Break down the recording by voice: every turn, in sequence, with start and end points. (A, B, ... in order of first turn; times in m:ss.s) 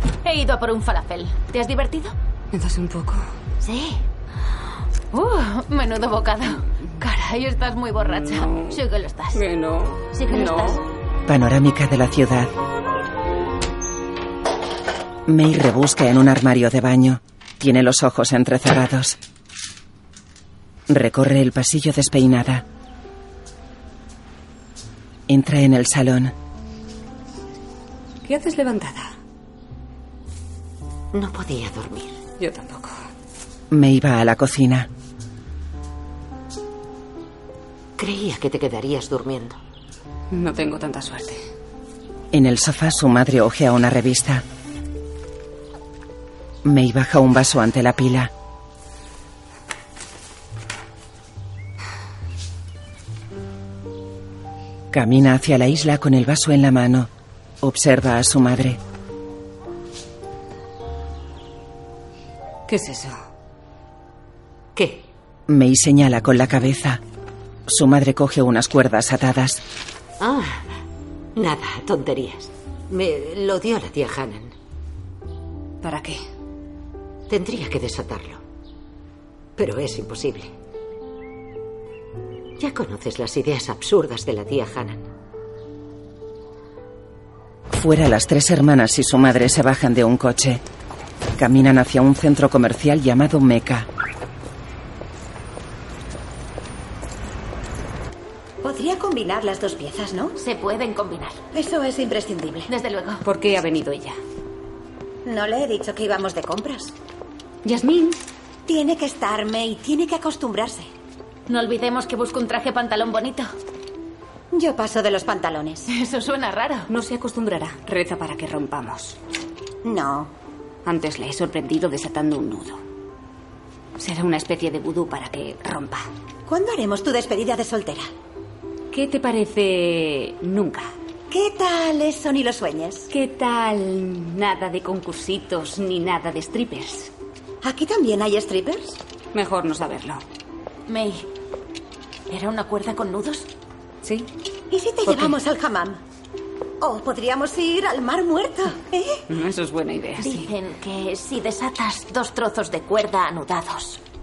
0:00.2-0:02.2 A
0:02.5-0:03.2 B
0:03.6-0:04.0 A
0:05.1-0:09.4 A
0:08.0-0:08.8 B
0:09.3-0:10.8 B
0:10.2-0:10.8 A
0:11.3-0:12.5 C
0:15.3-0:19.2 C
0:20.9-0:22.6 C
0:25.3-0:26.3 C
0:28.2-0:29.1 B
0:31.1-0:32.2 D
0:32.4-0:33.0 B
0:33.7-0:34.9 C
0:38.0-0:39.6 D
0:40.3-0:41.4 B
0:42.3-0:44.4 C
0:46.6-0:48.3 C
0:54.9-0:57.1 C
0:57.6-0:58.8 C
1:02.7-1:03.2 B
1:04.8-1:05.1 D
1:05.5-1:07.0 C
1:07.7-1:09.6 C
1:10.2-1:10.7 D
1:11.4-1:14.5 D
1:15.8-1:16.2 B
1:17.3-1:18.4 D
1:19.6-1:20.5 D
1:22.6-1:25.1 D
1:27.7-1:30.6 C
1:31.4-1:33.9 C
1:38.6-1:40.4 E
1:40.4-1:41.4 A
1:41.5-1:42.7 E
1:42.7-1:43.2 A
1:43.2-1:44.2 B
1:45.2-1:46.9 E
1:47.6-1:48.2 B
1:48.7-1:50.9 E
1:51.5-1:53.5 A
1:54.5-1:55.8 E
1:55.9-1:56.9 A
1:56.9-1:59.2 B
1:59.8-2:00.3 E
2:00.8-2:02.8 B
2:04.0-2:06.1 B
2:06.5-2:08.1 E
2:08.9-2:10.9 B
2:11.3-2:13.1 E
2:13.1-2:17.1 B
2:17.6-2:19.0 E
2:19.3-2:20.2 B
2:20.9-2:21.3 A
2:22.3-2:23.5 A
2:24.0-2:24.3 B
2:24.7-2:26.0 E
2:25.1-2:25.4 B
2:26.8-2:29.2 E
2:29.3-2:30.5 B
2:30.2-2:34.0 A